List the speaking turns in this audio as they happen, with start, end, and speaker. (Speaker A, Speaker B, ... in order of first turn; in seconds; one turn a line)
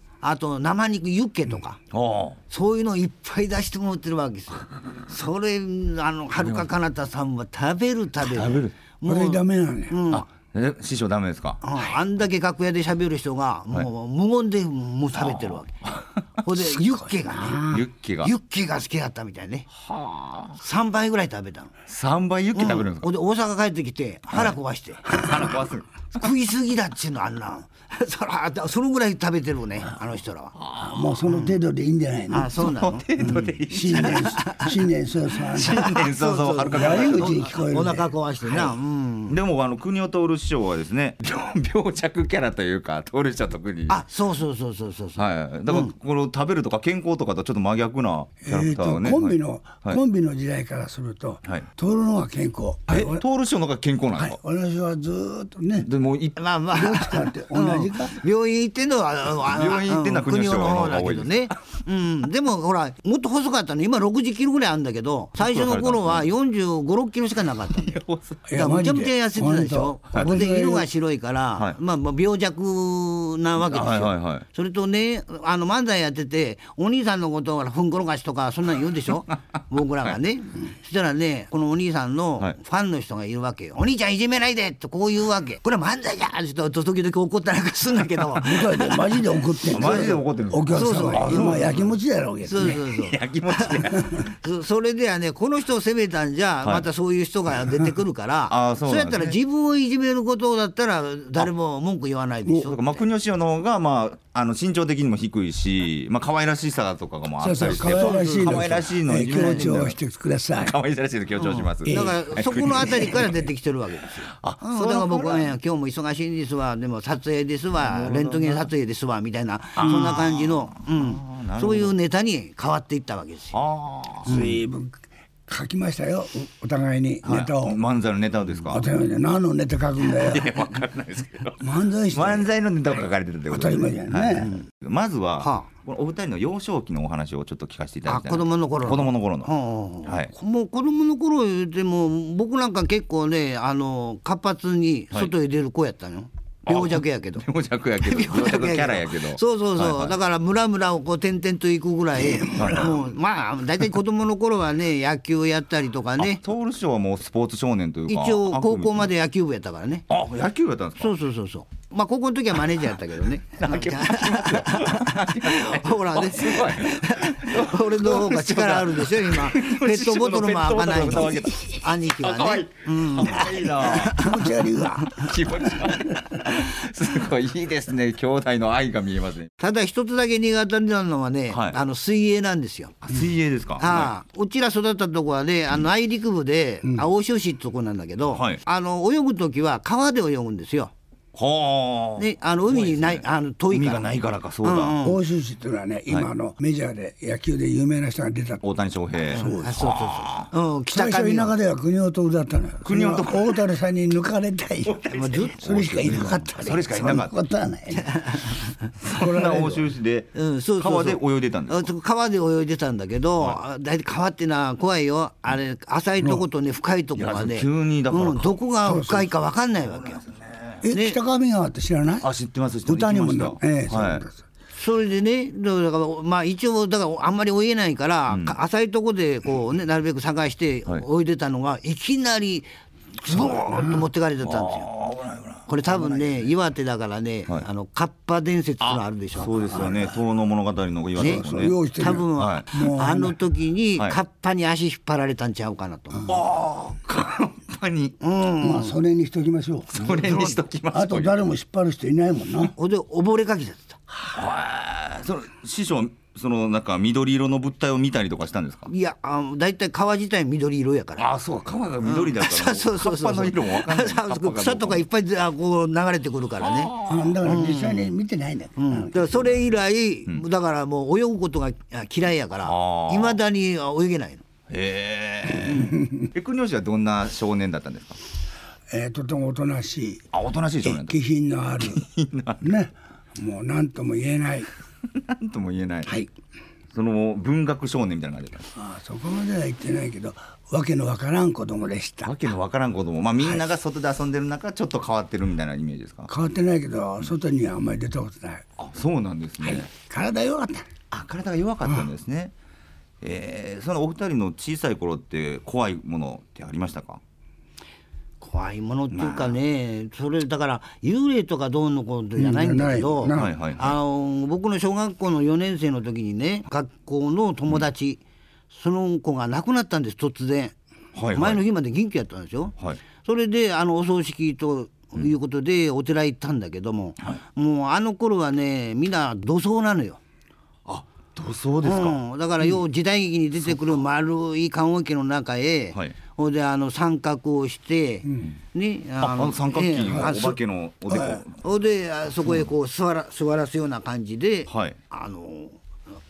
Speaker A: 0.2-1.8
Speaker B: 1.9-2.4
Speaker A: 2.5-10.2
Speaker B: 6.4-6.7
Speaker B: 8.2-8.8
Speaker C: 9.1-10.0
Speaker B: 10.1-11.6
Speaker A: 11.6-15.7
Speaker B: 15.1-16.2
Speaker A: 16.4-19.7
Speaker C: 17.3-17.8
Speaker B: 17.7-18.3
Speaker B: 19.8-20.6
Speaker A: 20.6-21.7
Speaker B: 21.9-23.1
Speaker A: 22.5-25.3
Speaker B: 24.3-26.3
Speaker A: 26.1-30.6
Speaker B: 30.6-31.1
Speaker C: 30.8-32.5
Speaker A: 31.2-31.6
Speaker A: 32.3-34.7
Speaker B: 32.5-34.4
Speaker C: 33.7-35.9
Speaker B: 35.5-37.5
Speaker A: 35.7-39.3
Speaker C: 36.7-38.1
Speaker B: 39.3-44.0
Speaker A: 43.9-45.9
Speaker B: 45.1-50.0
Speaker C: 48.4-53.2
Speaker B: 52.9-54.4
Speaker C: 54.1-55.9
Speaker B: 55.8-56.4
Speaker A: 56.4-68.0
Speaker C: 56.7-58.1
Speaker B: 59.4-61.5
Speaker B: 65.4-66.3
Speaker B: 67.7-68.5
Speaker C: 68.5-70.9
Speaker A: 68.5-89.0
Speaker B: 73.6-74.5
Speaker C: 88.4-92.8
Speaker B: 89.6-92.0
Speaker A: 90.7-91.6
Speaker A: 92.4-102.9
Speaker B: 92.6-94.2
Speaker B: 98.5-99.4
Speaker B: 102.6-110.0
Speaker C: 107.4-110.8
Speaker A: 107.7-108.8
Speaker B: 110.6-113.5
Speaker A: 111.4-123.5
Speaker C: 111.8-112.2
Speaker B: 114.2-115.5
Speaker B: 117.8-118.7
Speaker B: 119.8-121.9
Speaker B: 123.5-124.4
Speaker A: 124.2-124.5
Speaker C: 124.2-127.8
Speaker B: 127.2-128.9
Speaker C: 128.7-130.5
Speaker B: 130.1-139.5
Speaker C: 131.6-132.5
Speaker C: 133.5-134.5
Speaker A: 135.4-135.7
Speaker A: 138.1-147.4
Speaker B: 140.0-140.3
Speaker B: 146.7-150.1
Speaker A: 148.0-156.4
Speaker C: 152.4-152.8
Speaker B: 152.5-153.0
Speaker B: 156.2-159.1
Speaker A: 158.1-160.1
Speaker B: 160.1-161.1
Speaker A: 161.0-174.4
Speaker B: 163.6-174.3
Speaker C: 174.1-175.2
Speaker B: 175.1-179.5
Speaker A: 179.6-183.0
Speaker B: 181.5-181.8
Speaker B: 183.0-184.1
Speaker A: 183.8-190.9
Speaker B: 188.3-188.6
Speaker B: 191.3-194.9
Speaker A: 192.2-195.2
Speaker C: 195.0-198.6
Speaker B: 198.6-200.5
Speaker A: 199.3-201.5
Speaker C: 199.3-199.7
Speaker C: 200.9-205.0
Speaker B: 202.8-203.6
Speaker B: 204.8-207.3
Speaker A: 205.1-206.4
Speaker C: 205.5-208.1
Speaker A: 207.9-208.9
Speaker B: 209.0-211.9
Speaker C: 209.1-209.8
Speaker A: 210.3-220.2
Speaker B: 217.2-218.6
Speaker C: 218.8-219.3
Speaker B: 219.8-220.8
Speaker C: 220.8-222.3
Speaker A: 220.9-221.2
Speaker B: 222.2-224.2
Speaker C: 222.8-224.4
Speaker A: 224.7-234.9
Speaker B: 228.3-228.6
Speaker C: 233.5-234.0
Speaker B: 234.4-236.5
Speaker A: 235.7-239.9
Speaker B: 238.8-241.8
Speaker C: 239.6-240.2
Speaker A: 241.2-241.4
Speaker C: 241.2-243.3
Speaker A: 241.9-246.3
Speaker B: 242.3-242.7
Speaker B: 246.3-248.2
Speaker A: 248.2-248.9
Speaker C: 248.6-252.7
Speaker B: 249.9-251.4
Speaker A: 250.0-250.6
Speaker A: 252.6-254.0
Speaker B: 254.3-258.9
Speaker A: 258.9-261.2
Speaker B: 261.2-265.0
Speaker A: 262.0-268.1
Speaker B: 266.6-267.4
Speaker C: 267.0-269.6
Speaker A: 268.8-274.4
Speaker B: 272.6-273.4
Speaker B: 274.7-278.2
Speaker A: 275.7-275.9
Speaker C: 275.7-276.3
Speaker C: 278.9-280.2
Speaker B: 280.3-281.2
Speaker C: 280.8-282.0
Speaker B: 281.8-282.8
Speaker C: 282.6-284.7
Speaker B: 285.1-286.1
Speaker B: 286.9-288.7
Speaker C: 288.7-292.3
Speaker B: 292.2-296.3
Speaker C: 296.3-298.6
Speaker B: 298.8-299.9
Speaker C: 299.6-300.9
Speaker B: 301.1-302.5
Speaker B: 303.2-307.2
Speaker A: 308.4-318.2
Speaker B: 309.1-309.6
Speaker C: 312.4-313.5
Speaker B: 313.3-314.0
Speaker A: 318.7-320.7
Speaker B: 321.1-321.6
Speaker A: 321.3-330.2
Speaker B: 330.9-332.2
Speaker A: 331.8-340.6
Speaker B: 333.7-334.0
Speaker B: 339.2-341.6
Speaker C: 341.1-341.4
Speaker A: 341.6-345.8
Speaker B: 344.7-345.0